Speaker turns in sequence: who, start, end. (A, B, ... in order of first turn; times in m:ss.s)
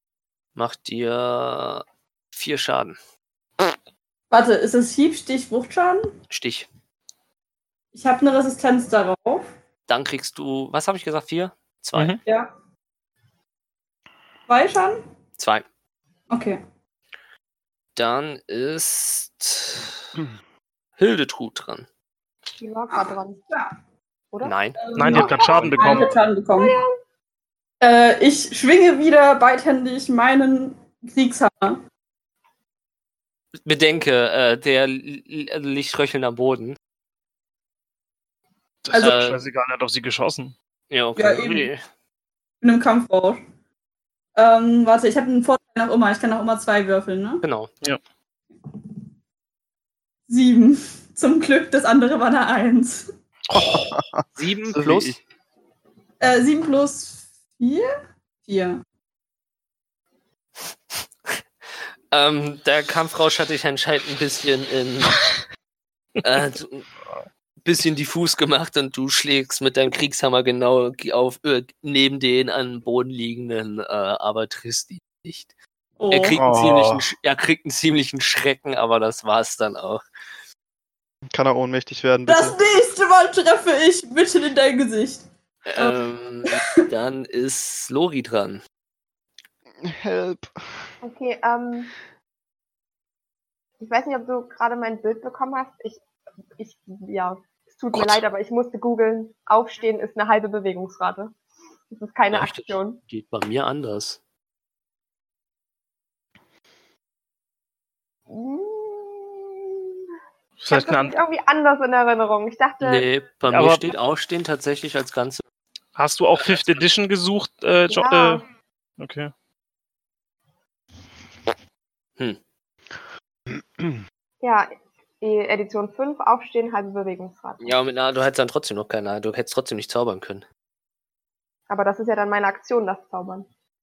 0:00.6-0:03.0 A
0:04.3-0:06.1 B
0:06.3-0:06.7 A
0:07.9-0:09.4 B
0:09.9-0:12.2 A
0:11.9-0:12.2 C
0:12.3-0:12.5 B
0:14.5-0:15.0 B
0:15.4-0:15.6 A
0:16.3-0:16.6 B
0:17.9-0:20.0 A
0:21.0-0:21.8 A
0:22.6-0:23.4 D
0:22.9-0:23.7 B
0:24.4-0:24.8 A
0:24.8-0:26.7 B
0:24.9-0:26.2 C
0:25.1-0:26.9 D
0:25.4-0:26.0 A
0:27.8-0:31.8 B
0:33.6-0:36.8 A
0:38.8-0:40.5 C
0:38.9-0:39.4 A
0:40.9-0:41.8 A
0:41.2-0:41.7 B
0:42.6-0:43.4 B
0:44.4-0:47.4 B
0:47.4-0:47.7 A
0:50.3-0:53.1 B
0:53.5-0:54.0 C
0:53.6-0:55.2 E
0:54.4-0:55.2 A
0:56.2-0:57.9 B
0:58.5-0:58.8 B
1:02.1-1:05.2 A
1:06.2-1:06.9 A
1:07.6-1:15.5 A
1:16.0-1:16.4 B
1:16.1-1:20.0 A
1:16.4-1:17.0 E
1:21.3-1:22.6 E
1:22.3-1:25.2 B
1:25.6-1:28.6 A
1:25.8-1:26.7 B
1:29.8-1:30.8 E
1:31.0-1:31.9 D
1:33.8-1:36.0 D
1:36.6-1:41.4 D
1:37.9-1:38.2 A
1:41.9-1:43.0 D
1:42.3-1:44.2 A
1:48.3-1:49.5 D
1:50.6-1:51.2 C
1:50.7-1:53.1 D
1:52.8-1:55.4 A
1:53.5-1:53.9 C
1:56.0-1:58.4 C
1:56.4-1:56.8 A
1:57.9-1:58.4 D
1:59.0-1:59.3 C
2:04.4-2:07.8 D
2:07.6-2:10.4 A
2:11.7-2:13.4 D